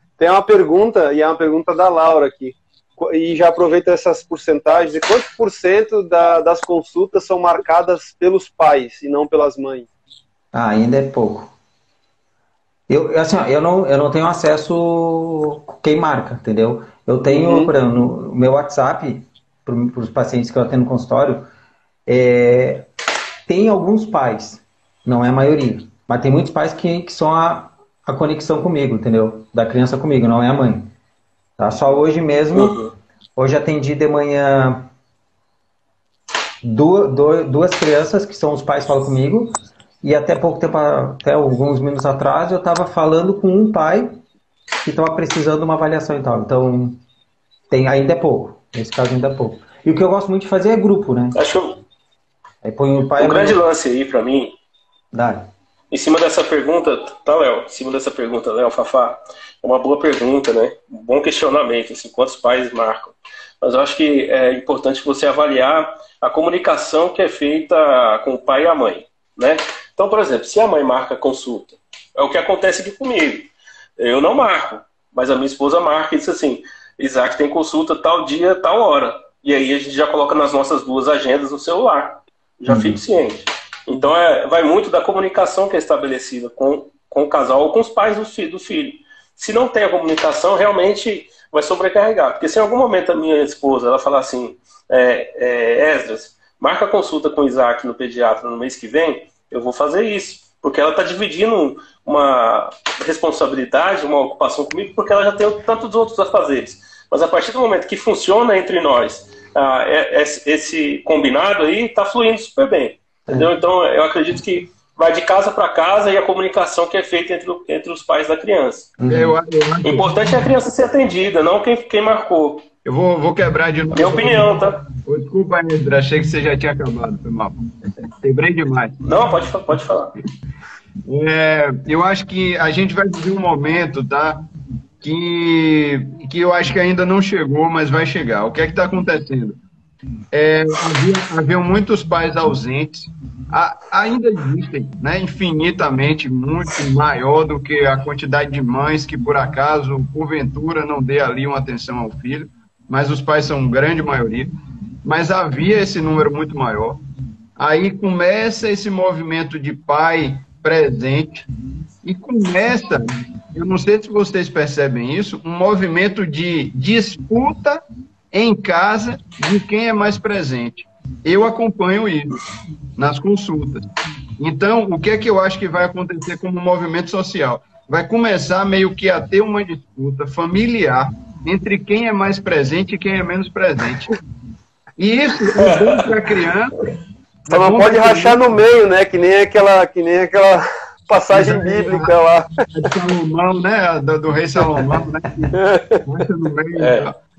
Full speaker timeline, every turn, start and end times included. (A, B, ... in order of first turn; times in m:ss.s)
0:00.2-0:09.9 A
0:10.5-0:11.5 B
0:12.9-0:21.5 B
0:17.3-0:17.7 A
0:22.1-0:22.9 B
0:23.5-0:30.9 B
0:31.6-0:32.8 B
0:32.5-0:32.9 C
0:33.4-0:34.9 B
0:36.6-0:44.2 B
0:44.8-0:47.0 B
0:47.7-0:51.4 B
0:51.3-0:51.8 C
0:52.6-0:53.6 B
0:53.2-0:54.6 C
0:55.1-0:55.5 B
0:55.9-1:58.9 C
1:22.7-1:23.0 B
1:59.0-1:59.4 B
1:59.1-2:00.2 D
1:59.8-2:02.6 C
2:02.8-2:07.6 D
2:03.9-2:04.8 C
2:08.2-2:09.0 D
2:09.0-2:10.2 C
2:11.1-2:14.4 D
2:15.0-2:19.6 D
2:20.3-2:34.5 D
2:35.0-2:37.0 D
2:37.6-2:41.5 D
2:42.0-2:52.4 D
2:53.0-2:53.9 D
2:54.4-3:04.2 D
3:05.0-3:06.8 D
3:05.6-3:06.1 C
3:07.5-3:08.4 D
3:07.5-3:12.5 A
3:11.3-3:12.1 D
3:12.7-3:17.2 D
3:15.5-3:16.0 A
3:16.8-3:17.1 C